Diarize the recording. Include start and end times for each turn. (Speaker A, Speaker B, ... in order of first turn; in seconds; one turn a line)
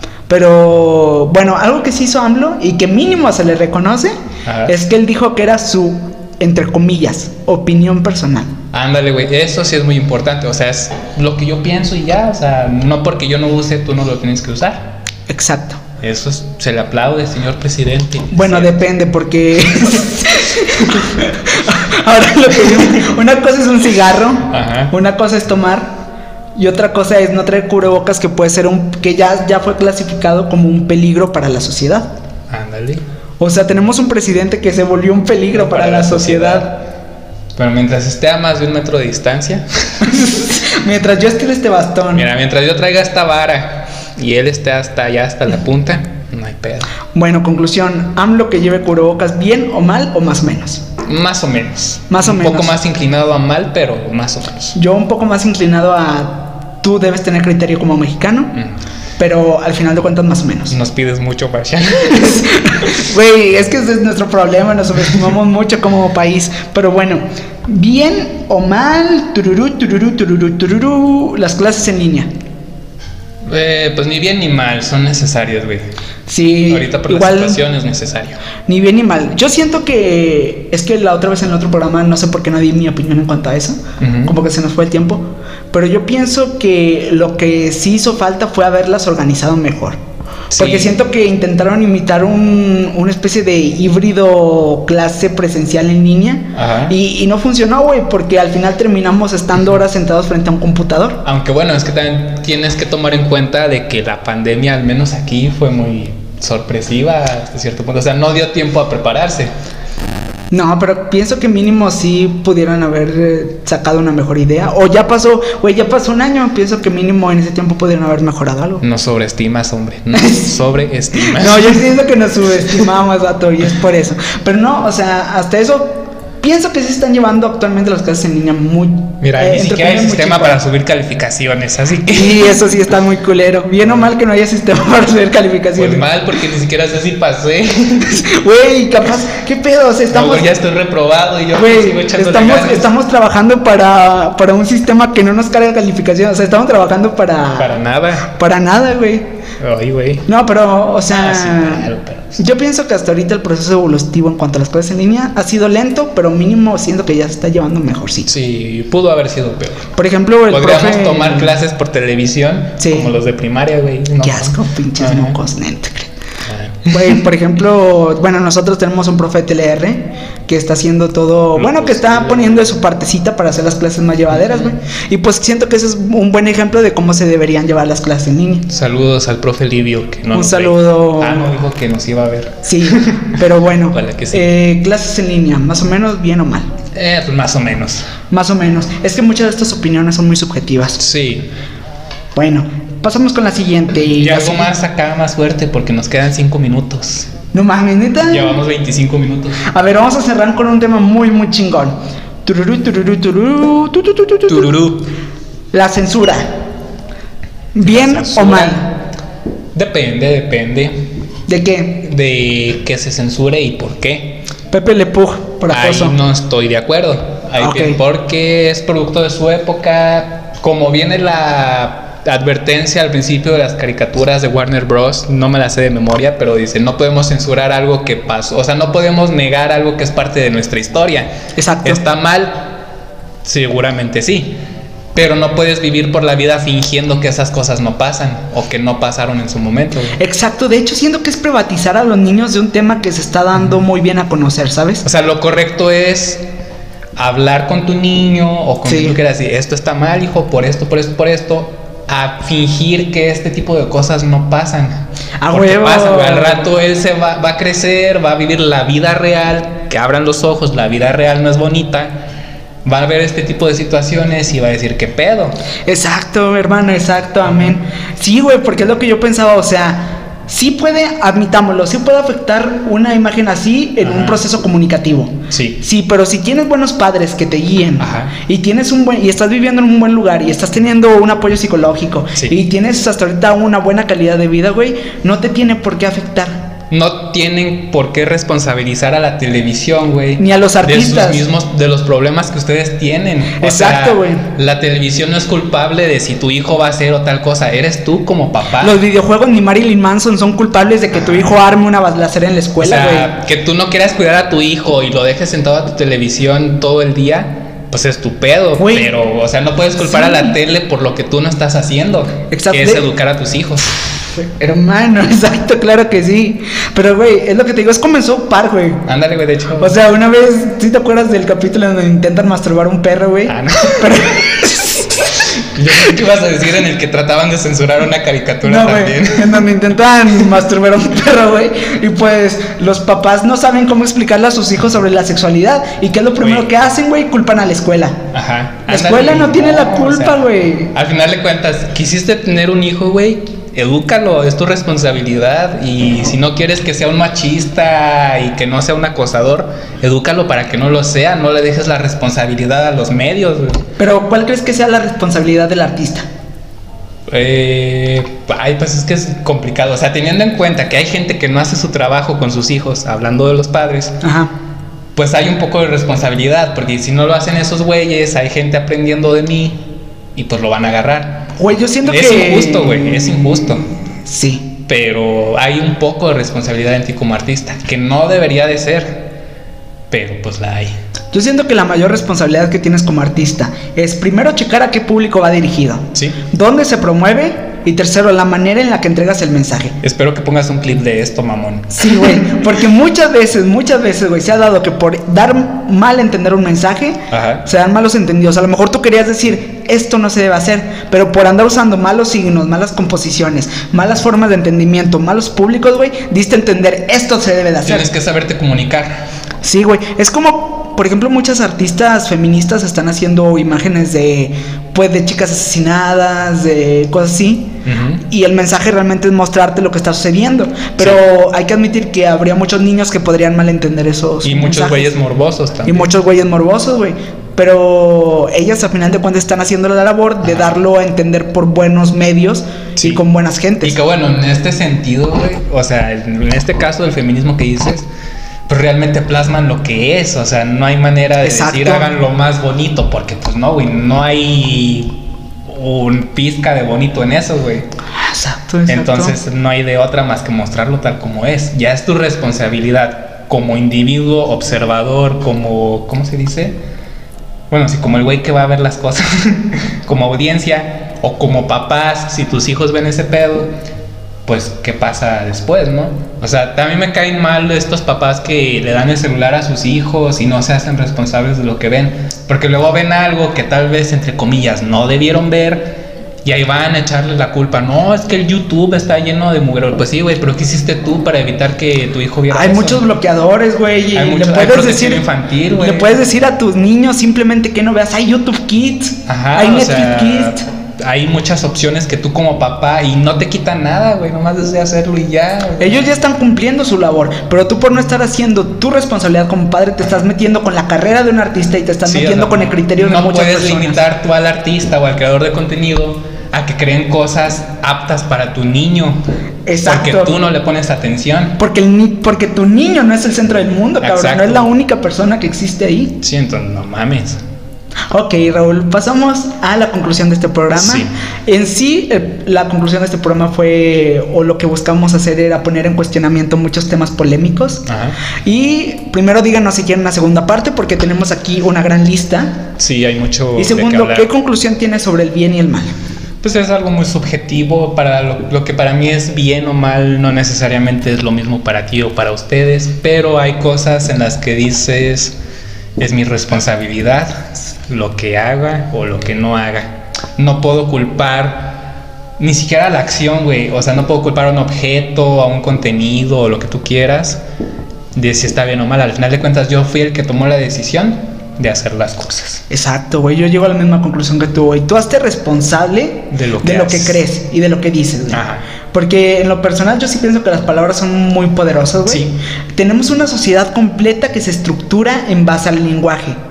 Speaker A: 0.3-4.1
Speaker B: 4.4-4.7
Speaker A: 4.7-8.5
Speaker B: 8.7-14.9
Speaker A: 15.3-15.8
Speaker B: 16.0-18.7
Speaker A: 18.3-26.0
Speaker B: 24.5-24.9
Speaker A: 26.6-32.1
Speaker B: 32.5-33.0
Speaker A: 33.4-36.7
Speaker B: 35.5-36.8
Speaker B: 37.5-40.3
Speaker A: 40.0-42.3
Speaker B: 42.1-46.9
Speaker A: 47.1-50.8
Speaker B: 51.0-54.7
Speaker A: 52.1-52.8
Speaker A: 54.7-58.6
Speaker A: 59.2-60.8
Speaker B: 60.7-62.7
Speaker A: 62.1-72.3
Speaker B: 73.4-75.9
Speaker A: 76.3-77.6
Speaker B: 76.7-78.4
Speaker A: 78.7-90.0
Speaker B: 84.0-84.3
Speaker B: 90.5-90.9
Speaker A: 90.5-101.2
Speaker B: 96.5-97.0
Speaker B: 101.2-109.5
Speaker A: 110.5-118.8
Speaker B: 118.8-121.8
Speaker A: 120.1-120.5
Speaker A: 121.2-130.6
Speaker B: 129.2-132.6
Speaker A: 132.0-136.1
Speaker B: 135.8-138.2
Speaker A: 138.0-140.5
Speaker B: 140.1-142.9
Speaker A: 141.5-149.3
Speaker B: 147.6-148.3
Speaker B: 149.6-150.2
Speaker A: 150.3-158.3
Speaker B: 151.1-152.4
Speaker B: 158.3-159.9
Speaker A: 159.9-161.5
Speaker B: 160.5-165.4
Speaker A: 162.8-163.1
Speaker A: 164.2-166.1
Speaker B: 166.4-167.1
Speaker A: 166.8-178.7
Speaker B: 171.6-172.7
Speaker B: 174.3-174.7
Speaker B: 178.7-183.4
Speaker A: 180.3-181.5
Speaker A: 182.6-186.7
Speaker B: 183.9-184.5
Speaker B: 186.9-188.1
Speaker A: 188.3-191.0
Speaker B: 191.0-191.5
Speaker A: 192.3-194.7
Speaker B: 194.1-197.3
Speaker A: 197.5-198.6
Speaker B: 198.2-199.7
Speaker A: 199.6-204.8
Speaker B: 204.5-205.1
Speaker A: 205.7-206.6
Speaker A: 207.7-208.9
Speaker B: 207.8-208.9
Speaker B: 209.7-211.1
Speaker A: 211.5-212.0
Speaker B: 212.0-214.4
Speaker A: 214.7-216.2
Speaker B: 215.7-231.3
Speaker A: 217.6-218.0
Speaker A: 231.6-232.0
Speaker B: 231.8-232.8
Speaker B: 233.4-234.6
Speaker B: 235.1-240.2
Speaker A: 240.1-245.0
Speaker B: 245.0-246.4
Speaker B: 247.2-262.2
Speaker A: 248.8-249.2
Speaker A: 255.4-256.7
Speaker B: 262.8-265.6
Speaker A: 265.9-286.7
Speaker B: 274.0-274.4
Speaker B: 275.5-275.8
Speaker B: 278.0-278.3
Speaker B: 286.9-299.0
Speaker A: 290.4-291.4
Speaker A: 293.6-294.5
Speaker A: 298.8-303.3
Speaker B: 302.8-313.9
Speaker A: 308.8-309.1
Speaker A: 310.0-310.5
Speaker A: 312.5-313.1
Speaker A: 314.4-319.1
Speaker B: 319.0-320.0
Speaker A: 319.8-326.1
Speaker B: 323.4-324.3
Speaker B: 325.2-329.7
Speaker A: 328.6-338.3
Speaker B: 336.4-336.7
Speaker B: 338.3-353.8
Speaker A: 338.9-340.9
Speaker A: 354.0-356.2
Speaker B: 357.3-364.2
Speaker A: 364.2-364.5
Speaker B: 365.1-371.5
Speaker A: 371.5-373.4
Speaker B: 372.0-373.8
Speaker A: 374.2-374.7
Speaker B: 374.9-379.3
Speaker B: 380.1-380.9
Speaker A: 381.3-390.0
Speaker B: 386.1-386.4
Speaker B: 390.0-392.5
Speaker A: 391.9-408.1
Speaker B: 397.3-397.6
Speaker B: 407.8-409.3
Speaker A: 409.6-425.1
Speaker B: 417.8-418.2
Speaker B: 424.4-426.1
Speaker A: 425.9-434.0
Speaker B: 430.5-430.7
Speaker B: 433.0-433.2
Speaker B: 433.8-438.1
Speaker B: 438.7-447.9
Speaker A: 441.4-442.1
Speaker A: 448.1-449.4
Speaker B: 448.9-456.8
Speaker B: 457.7-463.7
Speaker B: 464.4-483.0
Speaker A: 482.5-490.6
Speaker B: 484.1-486.2
Speaker B: 489.3-496.1
Speaker A: 495.8-504.0
Speaker B: 502.0-509.2
Speaker A: 509.6-510.3
Speaker B: 509.8-511.6
Speaker A: 511.6-516.2
Speaker B: 514.0-514.7
Speaker B: 516.2-517.4
Speaker A: 518.1-527.9
Speaker B: 520.7-521.1
Speaker B: 527.9-528.2
Speaker A: 528.4-532.7
Speaker B: 532.8-534.3
Speaker A: 533.5-535.9
Speaker B: 536.4-545.4
Speaker B: 546.0-557.4
Speaker B: 558.1-562.6
Speaker A: 562.7-576.4
Speaker B: 566.3-567.2
Speaker B: 568.3-568.6
Speaker B: 572.0-572.4